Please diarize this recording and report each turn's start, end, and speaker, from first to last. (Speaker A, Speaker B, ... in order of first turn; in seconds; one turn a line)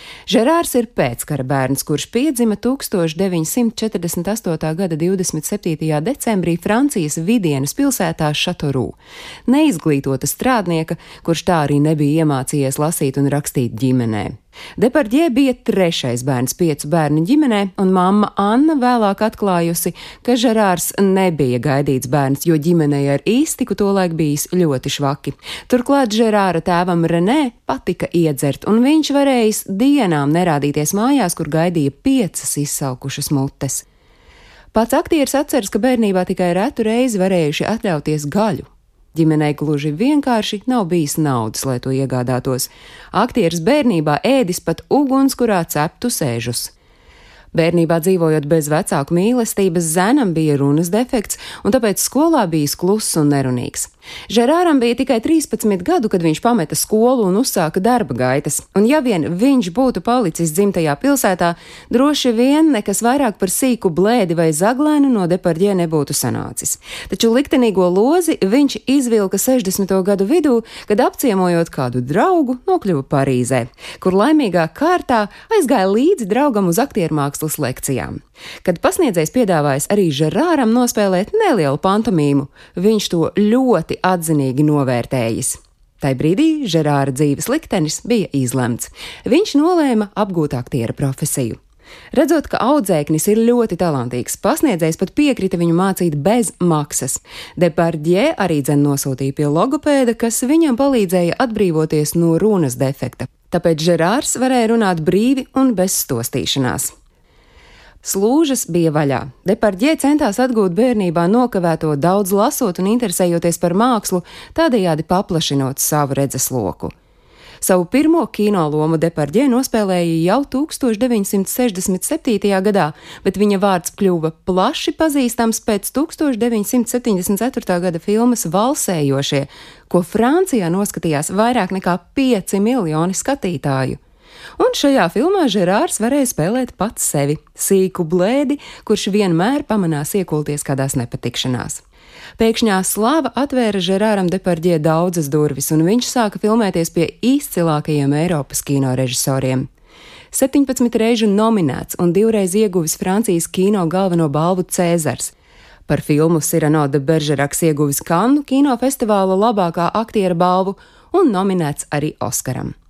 Speaker A: 0.3-33.8
Speaker A: 34.7-46.7
Speaker A: 47.5-91.6
Speaker A: 92.1-106.9
Speaker A: 108.0-116.9
Speaker A: 117.6-134.0
Speaker A: 134.6-141.8
Speaker A: 142.4-149.7
Speaker A: 150.3-155.3
Speaker A: 155.9-162.7